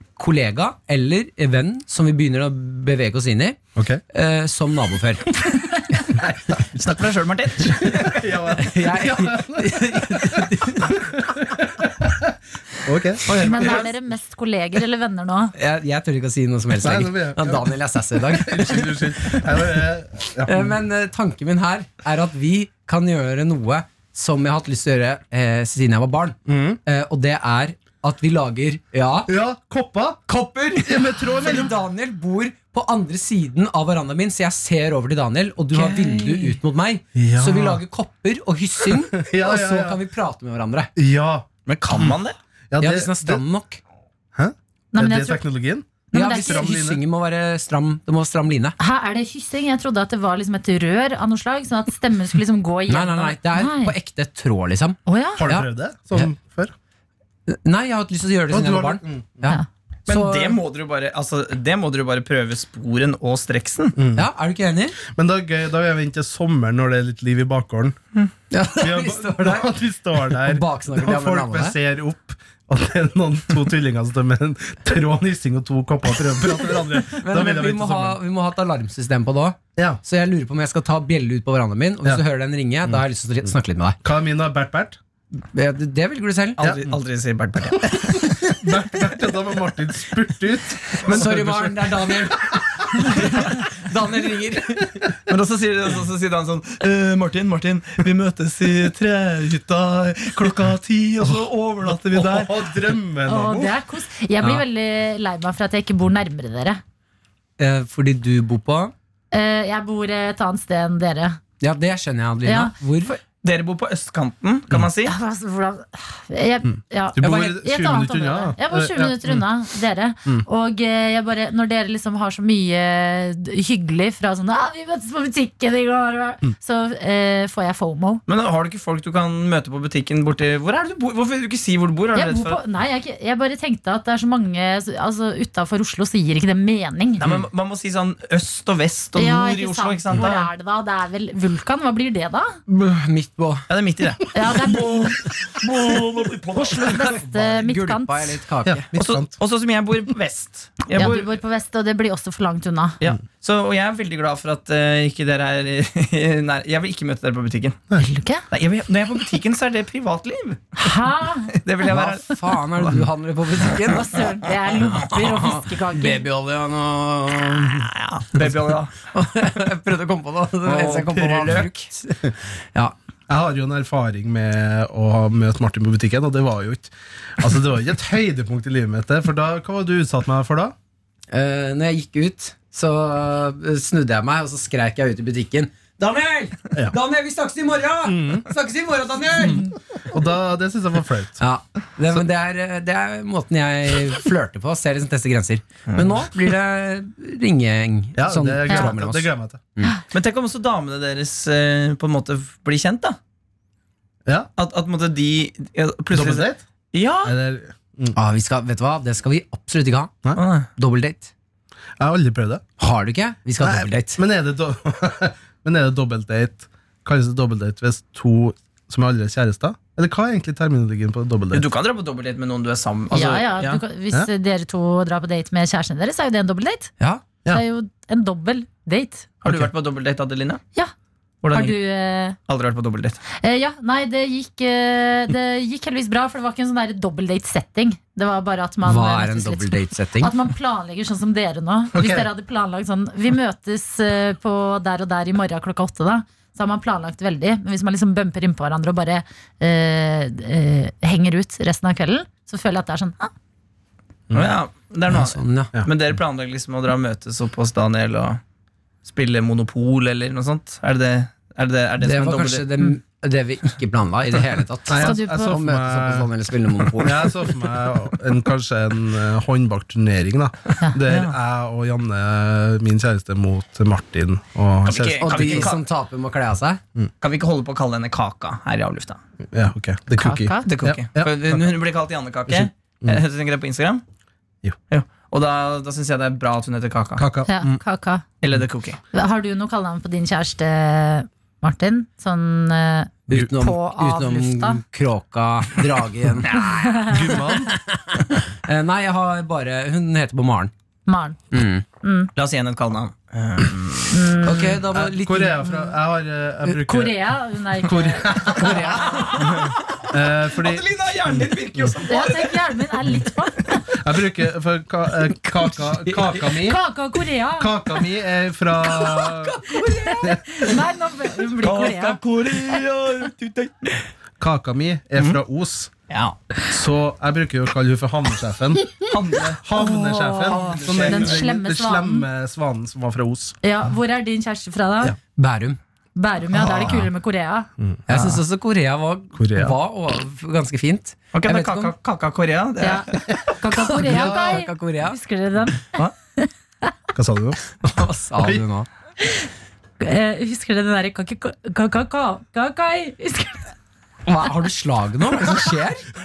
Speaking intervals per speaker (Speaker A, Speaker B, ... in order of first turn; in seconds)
Speaker A: 0.1-3.6, 4.1-6.2, 8.6-11.4, 15.5-19.8, 20.4-29.3, 30.3-40.9, 42.8-43.8, 46.1-48.8, 52.9-56.3, 57.5-60.6, 64.1-65.0, 68.5-71.8, 77.0-84.0, 85.5-86.6, 91.0-95.0, 107.6-108.9, 111.6-113.2, 142.7-143.7, 147.1-148.8, 161.8-168.4, 169.1-172.9, 181.3-189.7, 191.4-199.9, 208.1-210.1, 210.8-211.3, 212.8-214.2, 227.0-227.2, 238.8-240.3, 255.1-255.7, 262.0-267.5, 275.2-276.8, 293.3-296.6, 297.5-300.7, 301.5-301.8, 304.4-305.9, 308.5-309.7, 315.6-316.2, 318.8-320.4, 335.4-335.8, 338.1-341.9, 343.7-345.2, 347.9-348.9, 354.2-356.1
Speaker B: 3.8-4.0, 6.2-6.6, 7.7-13.9, 16.8-20.8, 26.5-26.8, 29.3-30.2, 30.8-31.7, 37.1-37.8, 38.9-40.0, 41.0-42.1, 42.7-43.4, 44.3-47.0, 55.4-56.7, 58.5-59.6, 64.0-64.3, 65.0-68.0, 68.8-78.2, 84.0-85.0, 86.6-86.9, 87.8-91.8, 93.0-93.3, 102.0-103.7, 117.2-119.4, 148.6-149.3, 170.7-171.7, 173.3-180.7, 188.1-188.4, 190.1-191.4, 198.2-199.6, 206.1-206.6, 207.2-208.2, 212.0-212.6, 213.6-221.6, 241.9-242.3, 254.3-254.5, 264.9-266.3, 267.0-275.7, 279.5-281.7, 282.5-283.2, 287.2-287.8, 297.1-297.8, 304.9-307.2, 307.8-311.9, 313.9-316.8, 317.6-319.6, 324.4-325.9, 326.7-333.6, 336.7-337.0, 337.8-338.3, 339.4-339.7, 343.9-344.6, 347.1-347.9, 348.4-348.6
Speaker C: 6.7-8.3, 13.3-13.9, 35.7-36.6, 41.7-42.4, 60.1-64.0, 86.6-88.6, 91.0-91.4, 95.3-102.5, 113.4-115.1, 128.3-132.6, 137.2-140.5, 143.7-147.2, 148.9-151.3, 153.0-157.8, 158.5-160.9, 161.5-163.0, 167.6-168.9, 200.1-203.2, 204.6-207.3, 210.3-210.7, 221.5-223.8, 229.4-230.6, 231.4-231.8, 232.5-233.2, 254.3-258.4, 259.0-262.7, 271.0-271.4, 274.8-275.8, 277.2-279.2, 280.6-284.0, 284.9-287.2, 288.4-289.0, 296.4-297.1, 302.4-304.2, 308.6-309.8, 310.4-312.6, 321.6-324.1, 326.1-326.4, 329.0-329.6, 330.4-331.4, 341.3-343.2
Speaker D: 13.3-15.5, 44.9-45.4, 46.1-46.7, 48.8-53.9, 55.0-55.4, 103.2-106.8, 109.3-111.4, 112.4-112.7, 115.0-128.2, 132.1-137.2, 139.2-142.6, 144.3-145.2, 146.6-148.4, 150.9-153.0, 158.0-158.4, 160.8-161.6, 163.8-166.2, 223.1-226.9, 227.5-229.3, 231.5-232.4, 233.4-253.3, 264.9-265.6, 280.1-280.7, 287.4-288.2, 289.1-294.8, 296.8-297.2, 301.1-301.4, 302.0-302.3, 304.1-304.8, 306.7-309.4, 312.1-313.9, 316.5-317.7, 319.9-322.2, 329.7-332.2, 333.6-335.1, 336.1-337.7, 342.8-346.9, 350.0-353.7